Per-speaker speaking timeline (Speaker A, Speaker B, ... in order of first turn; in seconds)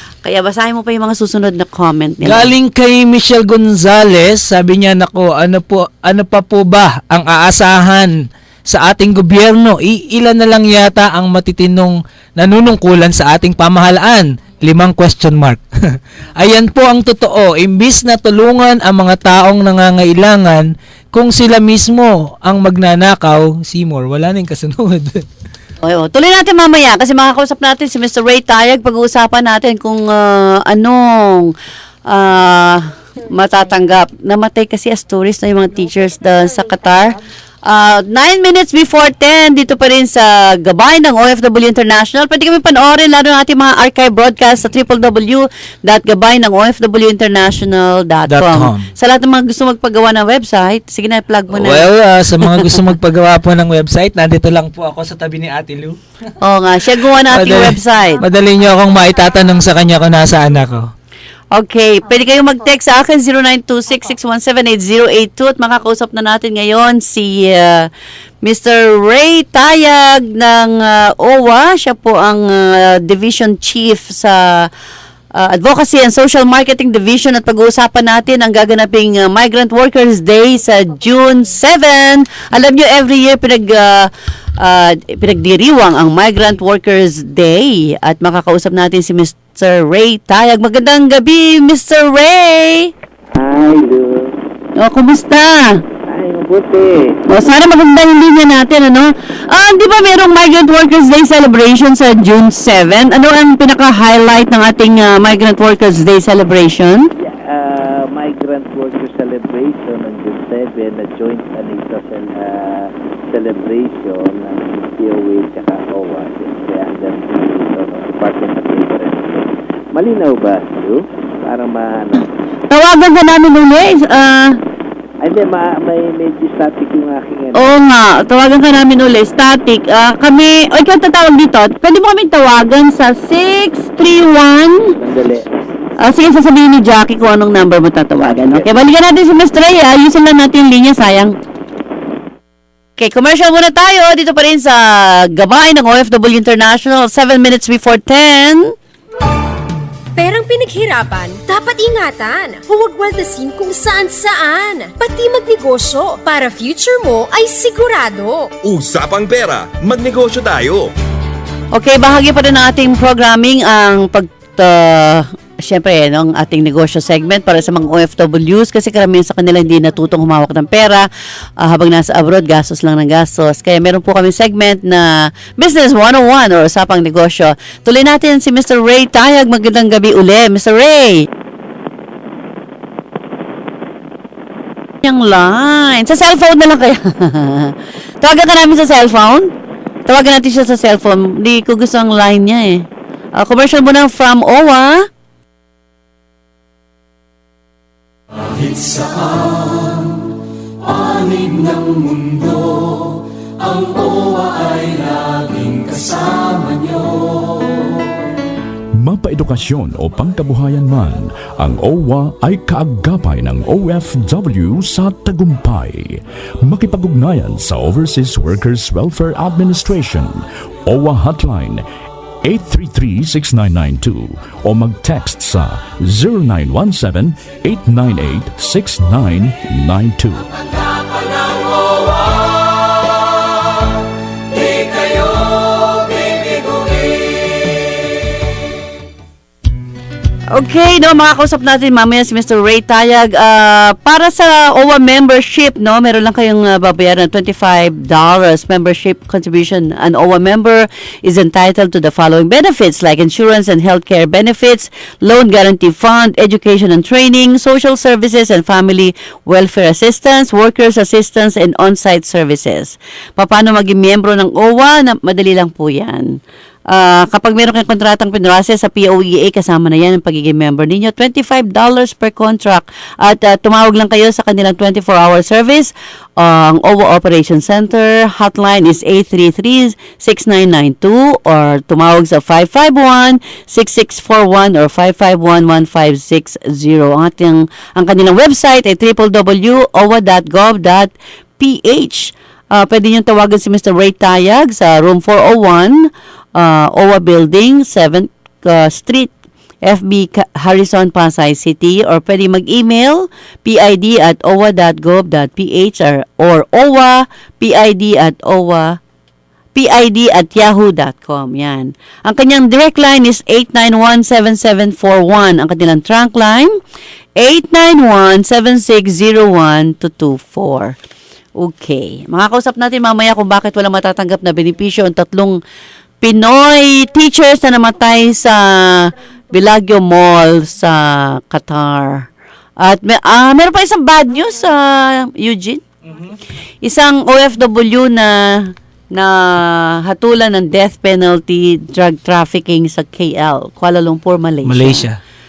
Speaker A: 0.2-2.5, 25.8-31.5, 32.1-51.9, 56.4-58.2, 61.5-67.9, 68.4-74.7, 75.4-84.1, 84.6-92.9, 94.8-95.8, 97.3-107.0, 122.7-124.6, 127.5-134.9, 136.0-141.3, 143.0-148.7, 161.7-171.1, 171.6-181.2, 185.0-189.5, 190.1-195.1, 240.5-266.4, 266.9-299.3, 299.9-309.0, 309.7-316.7, 317.4-320.9, 321.6-325.6, 326.2-332.2, 332.8-335.8, 336.8-345.1
Speaker B: 2.2-8.2, 8.7-25.2, 48.3-48.9, 51.5-56.0, 57.2-60.9, 344.6-345.2
Speaker C: 93.3-94.3, 96.1-97.2, 107.2-122.3, 125.2-127.7, 135.0-135.5, 138.2-138.7
Speaker D: 150.1-158.5
Speaker E: 158.6-160.9
Speaker F: 209.0-221.8, 222.4-230.5